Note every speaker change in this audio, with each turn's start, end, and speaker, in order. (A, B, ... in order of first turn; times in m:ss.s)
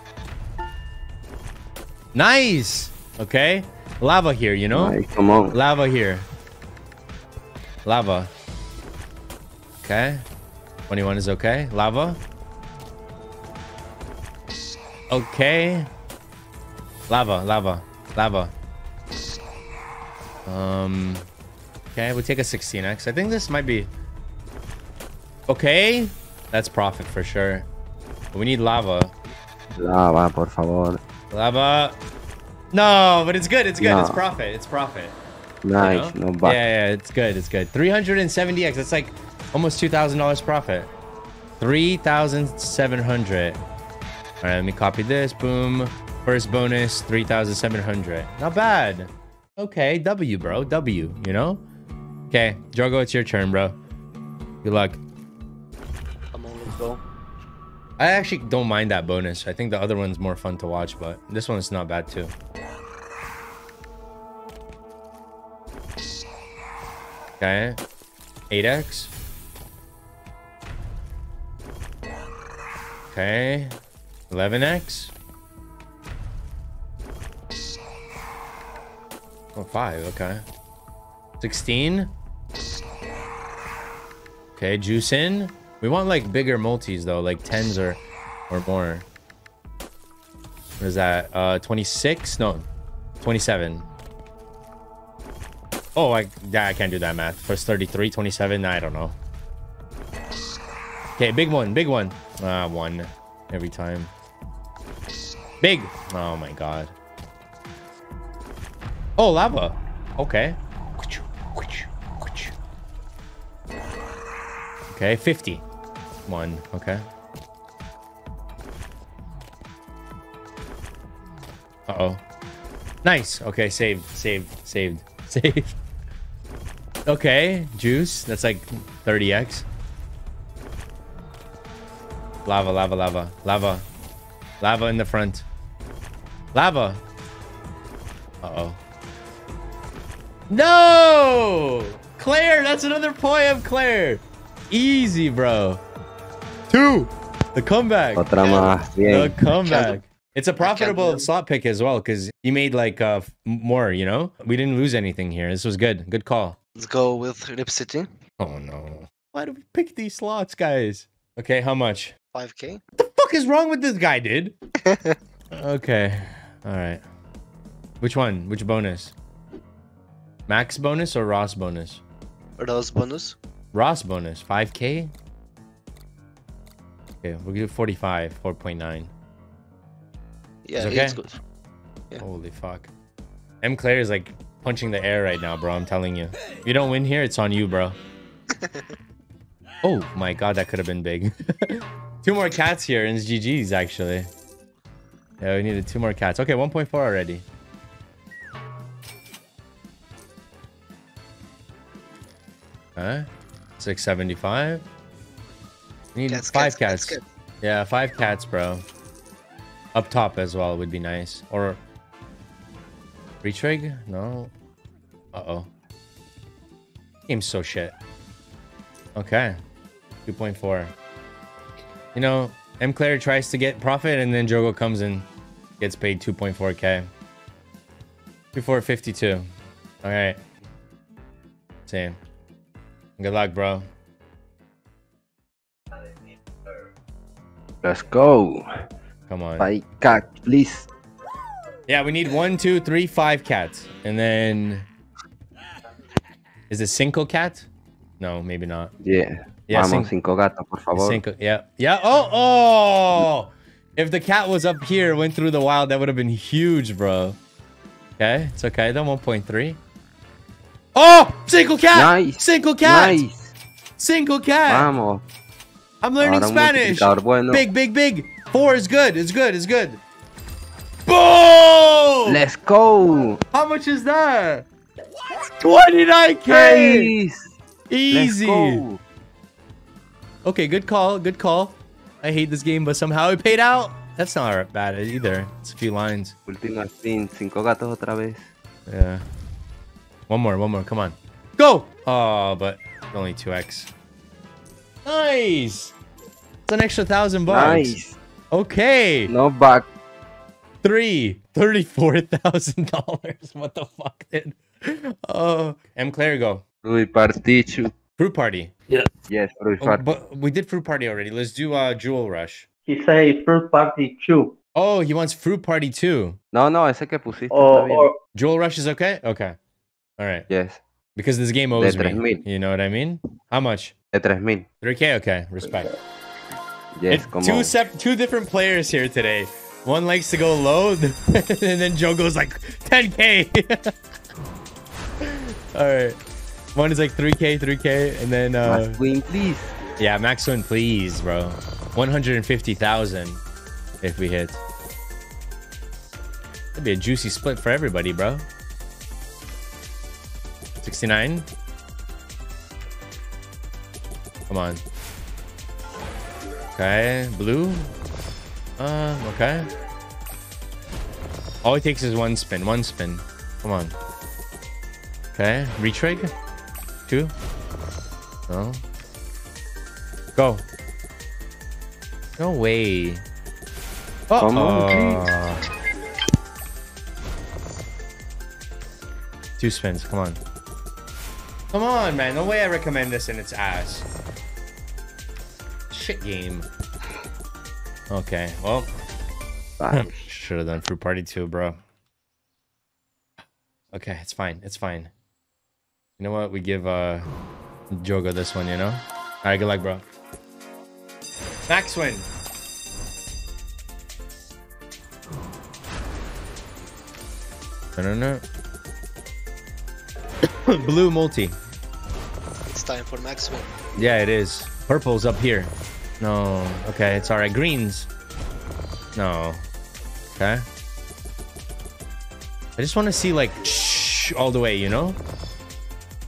0:02.1-0:05.0 A
0:04.7-0:05.6 B
0:05.5-0:06.3 A
0:07.8-0:08.3 A
0:09.8-0:10.2 A
0:10.9-0:12.2 A
0:15.1-0:15.9 A
0:17.1-0:18.5 A
0:20.4-0:21.3 A
0:21.9-0:23.9 A
0:25.5-0:27.7 A
0:28.3-0:29.1 A
0:29.7-0:31.0 B
0:31.3-0:32.0 A
0:32.7-0:35.2 A
0:33.8-0:34.2 B
0:35.6-0:36.6 B
0:35.8-0:40.9 A
0:41.6-0:43.6 A
0:44.4-0:51.6 A
0:52.3-0:53.8 A
0:54.6-0:55.0 A
0:56.3-0:57.0 C
0:58.0-1:02.3 A
1:07.4-1:07.8 A
1:08.5-1:09.1 A
1:13.1-1:13.8 A
1:14.3-1:15.1 A
1:19.5-1:20.4 A
1:21.4-1:22.1 A
1:24.6-1:29.0 A
1:30.8-1:32.7 A
1:33.2-1:33.8 A
1:35.9-1:39.2 A
1:41.2-1:44.1 A
1:45.6-1:46.9 A
1:49.2-1:52.5 A
1:54.9-1:55.6 A
1:56.3-1:57.0 A
2:01.9-2:02.2 A
2:03.0-2:05.8 A
2:07.0-2:09.7 A
2:12.4-2:13.8 A
2:14.6-2:15.4 A
2:16.5-2:17.0 A
2:18.4-2:18.8 A
2:20.5-2:25.8 A
2:26.7-2:28.3 A
2:28.1-2:29.4 B
2:28.4-2:28.7 C
2:29.0-2:36.6 A
2:29.6-2:29.9 C
2:30.6-2:31.3 C
2:36.8-2:38.1 C
2:38.4-2:42.1 A
2:42.3-2:42.8 C
2:43.0-2:44.6 A
2:44.8-2:45.2 C
2:45.5-2:47.0 A
2:48.0-2:49.1 A
2:50.5-2:52.0 A
2:52.6-2:53.4 C
2:53.7-2:55.1 A
2:57.2-2:59.1 A
3:00.6-3:01.4 C
3:00.8-3:01.2 A
3:02.2-3:02.9 A
3:03.6-3:08.0 A
3:09.8-3:14.3 A
3:15.4-3:17.4 A
3:23.0-3:23.3 A
3:23.8-3:24.8 A
3:26.1-3:28.8 A
3:26.3-3:27.2 C
3:29.9-3:31.8 A
3:33.4-3:34.5 A
3:35.3-3:35.7 A
3:37.3-3:37.9 A
3:39.2-3:39.6 A
3:40.2-3:40.9 A
3:42.1-3:45.3 A
3:45.8-3:47.1 A
3:48.5-3:49.4 A
3:50.0-3:50.4 A
3:51.9-3:52.2 A
3:53.2-3:53.8 A
3:57.8-3:58.7 B
3:59.3-3:59.7 A
3:59.6-4:00.9 B
4:01.9-4:04.9 A
4:06.7-4:07.7 A
4:08.2-4:08.9 A
4:09.0-4:11.2 B
4:09.7-4:10.1 A
4:10.9-4:17.4 A
4:18.2-4:19.8 A
4:20.9-4:23.2 A
4:21.9-4:23.5 B
4:24.0-4:24.9 A
4:24.7-4:25.2 B
4:26.0-4:30.0 A
4:26.2-4:27.6 B
4:31.1-4:32.4 A
4:32.2-4:33.4 B
4:33.5-4:34.6 A
4:35.6-4:37.1 A
4:36.5-4:37.5 B
4:37.9-4:38.9 A
4:38.1-4:39.0 B
4:40.4-4:46.4 A
4:46.5-4:48.5 B
4:48.9-4:49.2 A
4:50.3-4:53.9 A
4:55.0-4:55.9 A
4:56.7-4:58.0 A
4:57.5-4:58.2 B
4:58.5-4:59.3 A
4:59.3-4:59.9 B
5:00.8-5:06.6 A
5:06.8-5:07.9 B
5:08.2-5:08.7 A
5:09.3-5:10.0 B
5:09.8-5:12.6 A
5:12.8-5:14.6 D
5:14.7-5:16.4 A
5:16.5-5:18.1 B
5:17.5-5:18.2 D
5:18.3-5:19.6 A
5:20.2-5:20.5 A
5:20.5-5:20.8 B
5:21.1-5:23.9 A
5:21.7-5:22.4 B
5:24.1-5:24.7 B
5:24.8-5:25.9 A
5:27.0-5:27.7 B
5:27.1-5:33.9 A
5:35.2-5:36.2 A
5:36.7-5:39.0 A
5:38.6-5:39.8 B
5:40.0-5:43.4 A
5:44.0-5:44.6 A
5:46.8-5:48.4 A
5:50.8-5:51.5 A
5:54.5-5:54.8 A
5:56.8-5:57.9 A
5:58.8-5:59.7 A
6:01.6-6:03.9 A
6:05.3-6:06.3 A
6:07.0-6:07.3 A
6:08.5-6:08.8 A
6:10.4-6:10.6 A
6:12.4-6:13.2 A
6:14.3-6:15.6 A
6:14.4-6:15.3 B
6:19.6-6:20.4 A
6:21.7-6:24.1 A
6:25.9-6:26.7 A
6:28.1-6:28.9 A
6:29.8-6:30.3 B
6:29.9-6:31.8 A
6:33.9-6:35.1 A
6:36.2-6:37.3 A
6:37.9-6:40.0 A
6:41.7-6:42.3 A
6:48.0-6:48.4 A
6:50.6-6:51.6 A
6:52.7-6:53.7 C
6:54.0-6:58.1 A
6:59.2-6:59.6 A
7:00.4-7:00.6 A
7:02.8-7:05.2 A